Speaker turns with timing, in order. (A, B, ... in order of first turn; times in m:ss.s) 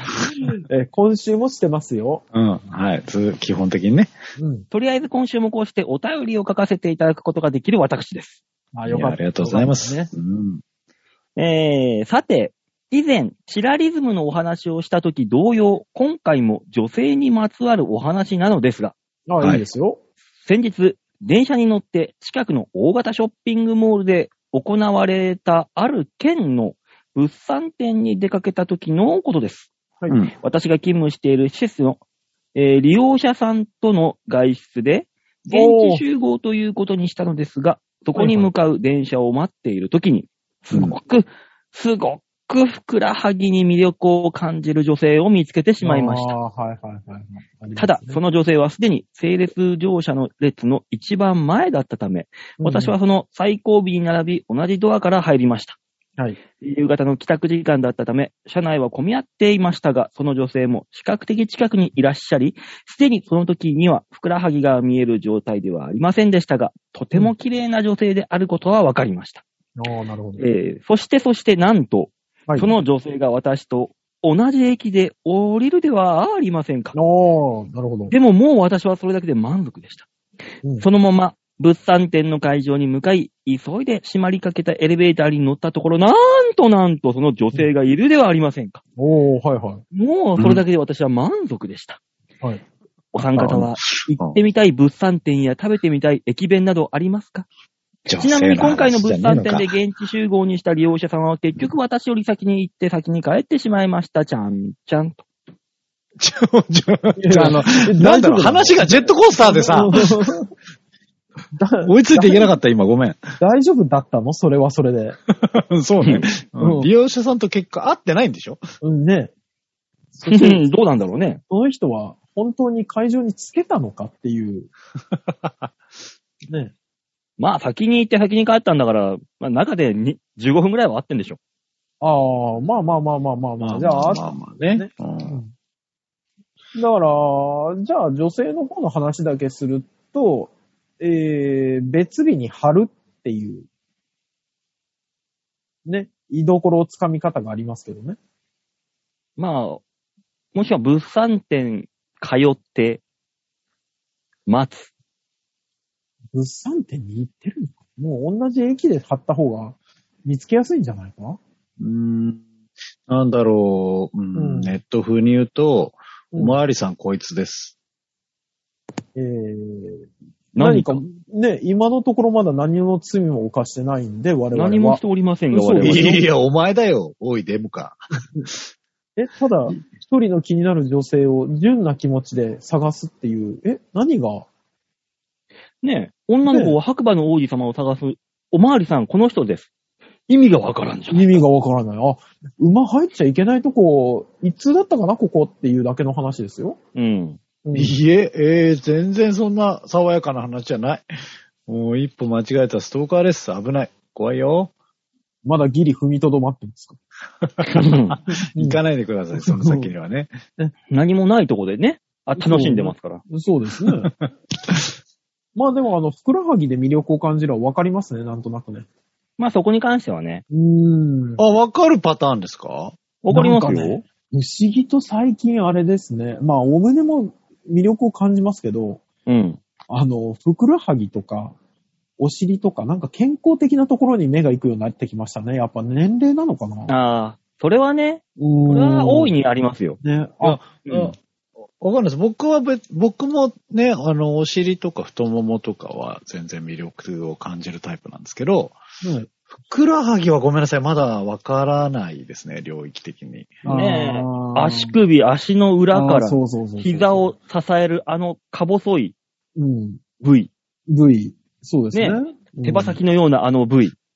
0:00.4-0:02.2 A
0:02.3-0:04.1 B
0:04.4-0:04.7 A
0:04.7-0:08.4 C
0:08.7-0:10.1 A
0:08.9-0:10.6 B
0:11.4-0:19.0 C
0:19.3-0:20.0 A
0:20.4-0:29.7 C
0:30.4-0:32.0 C
0:32.6-0:46.3 C
0:35.5-0:36.0 A
0:38.2-0:38.5 A
0:45.8-0:48.2 A
0:47.8-0:55.8 C
0:52.6-0:52.9 A
0:56.6-1:09.4 C
1:09.8-1:10.4 A
1:10.4-1:17.0 C
1:12.5-1:12.8 A
1:17.0-1:18.1 A
1:18.1-1:20.1 C
1:20.8-1:28.8 C
1:29.0-1:29.8 A
1:29.9-1:32.0 C
1:30.4-1:30.6 B
1:33.1-1:37.5 C
1:33.3-1:34.4 B
1:38.1-1:39.7 B
1:38.2-1:45.2 C
1:46.2-1:50.4 B
1:47.2-1:50.5 A
1:51.5-1:52.5 A
1:51.8-1:53.2 B
1:53.4-1:55.2 A
1:55.4-1:58.6 B
1:56.0-1:56.3 C
1:56.6-1:56.9 A
1:58.8-1:59.3 A
2:00.1-2:00.6 A
2:00.3-2:01.4 C
2:01.5-2:04.7 A
2:07.4-2:11.4 C
2:12.0-2:15.5 A
2:13.6-2:15.4 B
2:16.8-2:23.7 A
2:25.9-2:28.2 A
2:29.4-2:29.8 C
2:30.5-2:33.0 C
2:34.5-2:34.9 C
2:36.3-2:41.4 A
2:41.8-2:42.4 B
2:43.1-2:47.8 B
2:44.4-2:44.8 A
2:49.2-2:55.0 A
2:50.6-2:51.0 C
2:54.5-2:56.2 C
2:55.5-2:56.3 A
2:55.8-2:58.6 B
2:59.2-3:04.5 A
3:05.8-3:09.7 C
3:06.5-3:06.8 A
3:10.3-3:11.4 C
3:11.1-3:16.8 A
3:17.0-3:17.4 C
3:17.6-3:18.0 A
3:17.7-3:21.0 B
3:21.7-3:24.7 B
3:25.4-3:27.0 A
3:27.4-3:30.3 B
3:27.6-3:28.2 C
3:29.4-3:29.9 A
3:30.9-3:33.2 C
3:32.4-3:34.1 A
3:35.6-3:38.9 A
3:39.4-3:40.4 C
3:40.5-3:41.4 A
3:41.4-3:43.0 B
3:43.2-3:44.0 C
3:43.3-3:49.0 A
3:49.3-3:49.6 C
3:49.9-3:51.6 A
3:52.2-3:56.9 A
3:56.9-4:00.0 C
3:58.4-3:59.3 A
4:00.0-4:00.6 A
4:00.4-4:01.2 B
4:00.9-4:01.1 C
4:01.8-4:08.8 B
4:09.0-4:09.3 A
4:09.5-4:13.6 B
4:13.6-4:15.0 A
4:13.7-4:19.2 C
4:15.9-4:17.3 A
4:19.6-4:20.0 A
4:20.2-4:20.5 C
4:20.9-4:23.0 A
4:21.9-4:24.0 C